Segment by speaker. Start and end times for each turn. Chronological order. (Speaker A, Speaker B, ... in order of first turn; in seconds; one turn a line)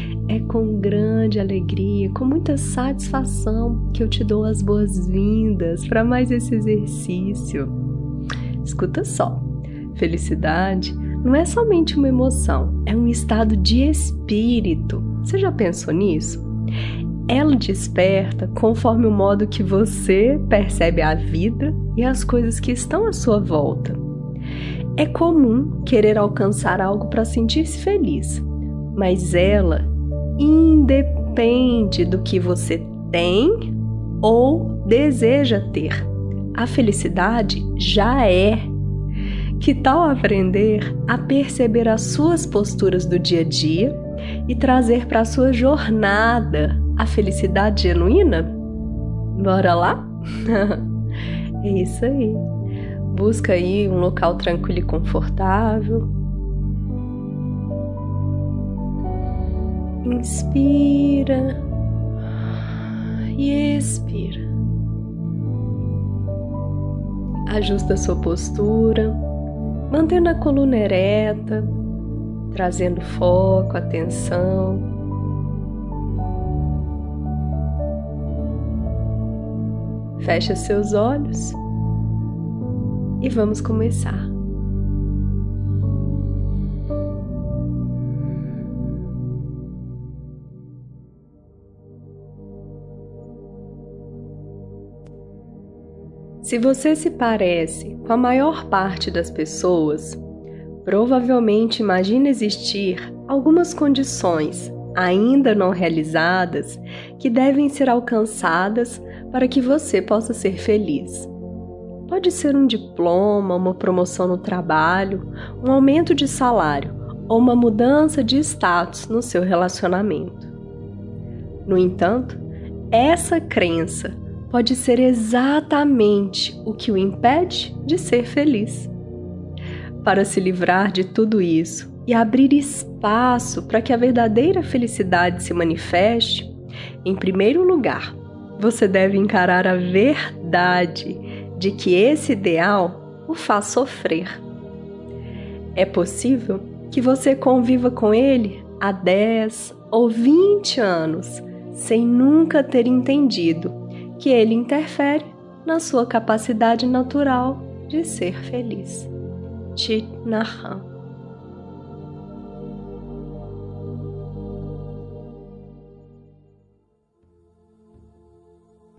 Speaker A: 0.3-7.8
Speaker A: 8.6-16.5
Speaker A: 17.3-24.0
Speaker A: 25.0-38.7
Speaker A: 39.6-48.5
Speaker A: 49.4-50.9
Speaker A: 51.6-52.5
Speaker A: 53.1-56.1
Speaker A: 60.0-61.6
Speaker A: 63.4-64.5
Speaker A: 67.5-69.2
Speaker A: 69.9-71.7
Speaker A: 72.5-74.9
Speaker A: 80.2-81.6
Speaker A: 83.2-84.3
Speaker A: 96.4-100.2
Speaker A: 100.8-111.3
Speaker A: 112.1-120.5
Speaker A: 121.7-128.9
Speaker A: 130.0-136.5
Speaker A: 137.0-144.4
Speaker A: 145.8-159.1
Speaker A: 159.8-160.9